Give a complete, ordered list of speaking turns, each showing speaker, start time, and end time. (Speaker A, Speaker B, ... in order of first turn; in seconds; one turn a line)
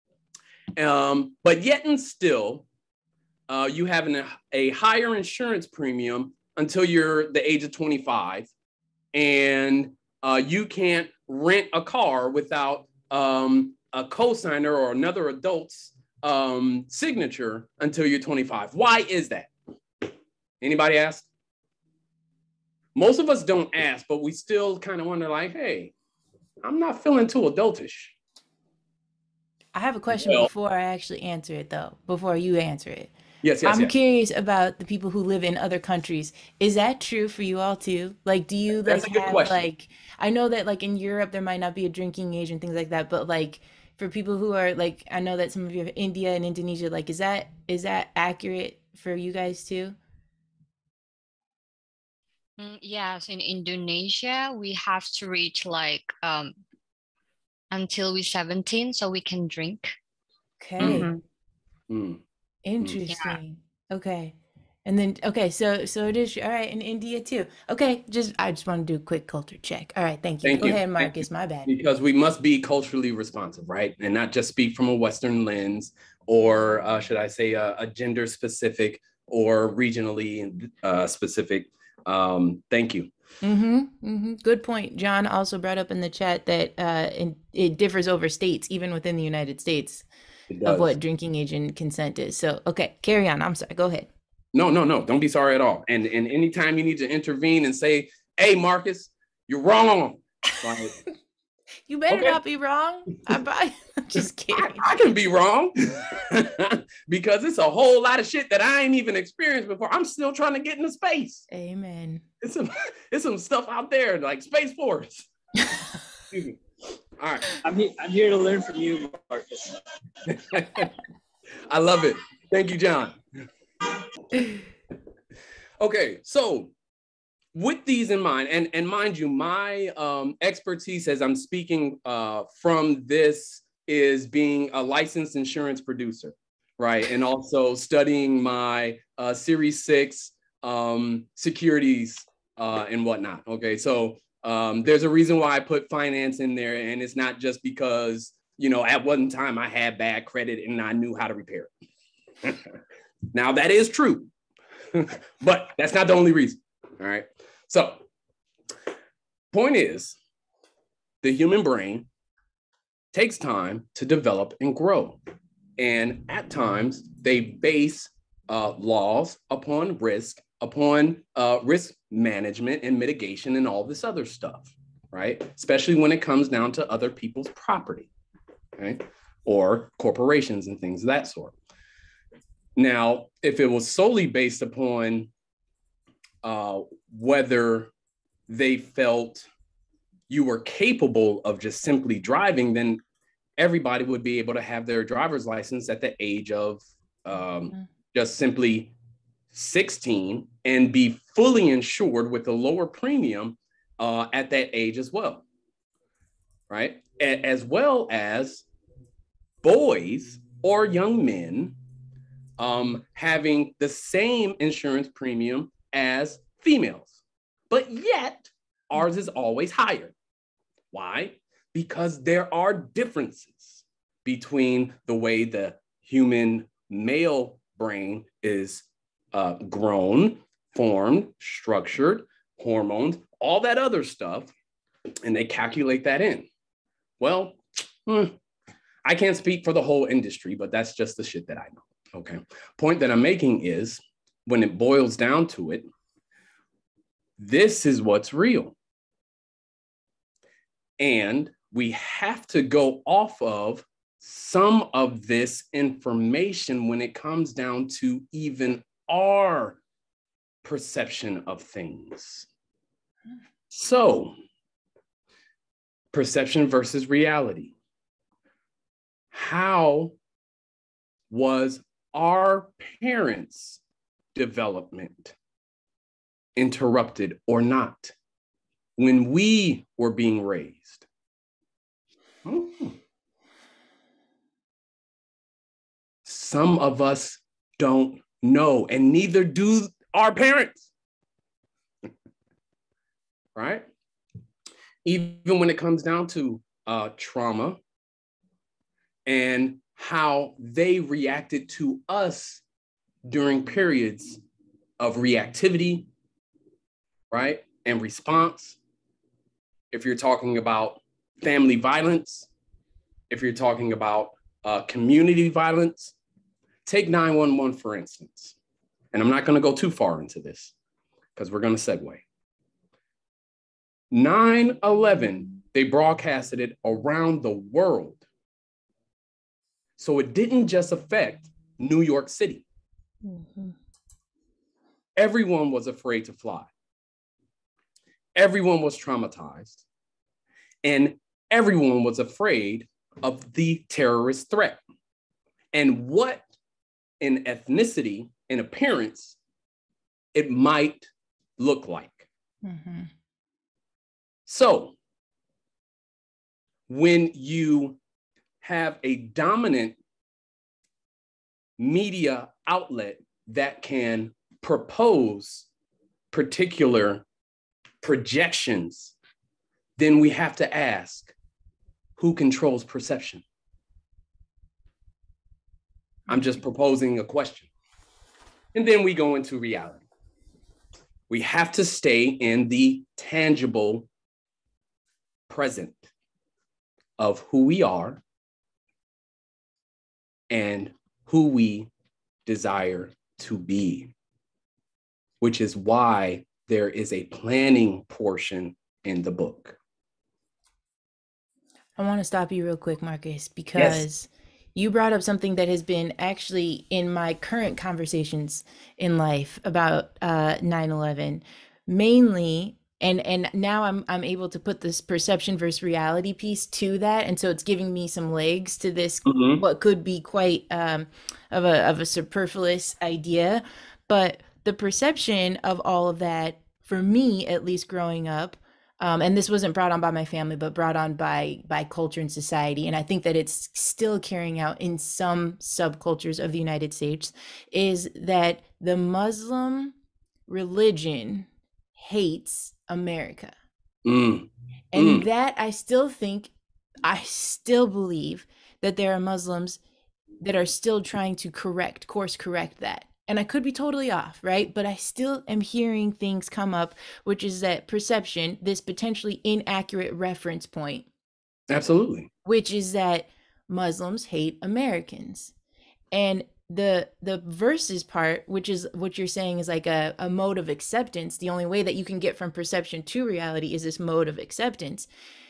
Speaker A: 0.8-2.6
Speaker A: 3.5-8.5
Speaker A: 9.1-19.5
Speaker A: 20.6-21.3
Speaker A: 22.9-25.9
Speaker A: 26.6-28.1
Speaker B: 29.7-33.1
Speaker A: 30.1-30.5
Speaker A: 33.4-33.9
Speaker B: 33.6-50.0
Speaker A: 38.8-39.6
Speaker C: 52.6-56.6
Speaker C: 57.7-60.0
Speaker B: 60.6-61.1
Speaker A: 60.8-61.1
Speaker C: 60.8-61.2
Speaker A: 61.9-62.2
Speaker B: 62.6-71.7
Speaker C: 63.1-63.4
Speaker A: 70.4-83.1
Speaker B: 83.4-90.0
Speaker A: 90.5-91.0
Speaker B: 90.6-94.1
Speaker A: 94.5-100.9
Speaker B: 101.9-104.9
Speaker A: 102.1-102.3
Speaker A: 104.5-111.4
Speaker B: 111.5-112.2
Speaker A: 112.4-115.3
Speaker A: 116.3-116.6
Speaker A: 117.2-117.5
Speaker D: 117.6-119.8
Speaker A: 120.3-120.9
Speaker A: 121.7-123.2
Speaker A: 125.8-126.7
Speaker A: 127.5-151.7
Speaker A: 153.3-154.3
Speaker A: 154.9-158.0
Speaker A: 159.5-160.2
Speaker A: 161.2-162.1
Speaker A: 163.1-165.2
Speaker A: 165.8-178.1
Speaker A: 178.8-181.6
Speaker A: 182.8-185.3
Speaker A: 186.4-187.9
Speaker A: 188.5-189.5
Speaker A: 190.3-193.0
Speaker A: 193.6-198.9
Speaker A: 199.5-205.4
Speaker A: 206.7-208.7
Speaker A: 209.6-211.8
Speaker A: 212.6-217.2
Speaker A: 217.7-220.1
Speaker A: 220.9-234.5
Speaker A: 235.2-236.5
Speaker A: 237.2-238.3
Speaker A: 239.0-245.9
Speaker A: 247.4-248.7
Speaker A: 251.0-259.8
Speaker A: 260.6-262.5
Speaker A: 263.7-264.3
Speaker A: 266.1-267.7
Speaker A: 269.3-270.1
Speaker A: 271.3-273.8
Speaker A: 274.3-275.3
Speaker A: 276.6-278.1
Speaker A: 279.0-281.1
Speaker A: 282.4-283.0
Speaker A: 286.2-290.9
Speaker A: 293.5-293.9
Speaker A: 295.0-297.8
Speaker A: 299.2-302.6
Speaker A: 303.2-304.4
Speaker A: 305.0-306.1
Speaker A: 307.3-308.8
Speaker A: 309.9-312.5
Speaker A: 313.3-316.1
Speaker A: 316.8-318.6
Speaker A: 319.1-320.7
Speaker A: 321.4-322.2
Speaker A: 324.1-328.2
Speaker A: 330.0-332.6
Speaker B: 333.2-333.7
Speaker A: 335.1-336.7
Speaker A: 338.3-339.8
Speaker A: 340.8-344.8
Speaker A: 345.7-346.4
Speaker A: 347.2-349.4
Speaker A: 350.3-352.3
Speaker B: 352.6-353.1
Speaker A: 354.4-354.9
Speaker A: 356.9-358.0
Speaker A: 358.6-360.0
Speaker A: 361.8-365.7
Speaker A: 366.3-367.2
Speaker A: 368.0-369.1
Speaker A: 370.0-371.3
Speaker A: 372.2-373.4
Speaker A: 376.3-377.7
Speaker A: 378.7-380.0
Speaker A: 381.3-384.1
Speaker A: 385.5-386.1
Speaker A: 387.2-388.2
Speaker A: 390.5-391.9
Speaker A: 392.4-394.1
Speaker A: 395.4-399.8
Speaker B: 402.0-439.9
Speaker A: 403.8-404.0
Speaker A: 419.2-419.6
Speaker B: 440.5-443.5
Speaker A: 444.0-445.2
Speaker B: 444.9-446.5
Speaker B: 447.0-449.8
Speaker B: 450.4-461.1
Speaker A: 461.7-462.3
Speaker B: 462.4-465.5
Speaker B: 466.1-475.1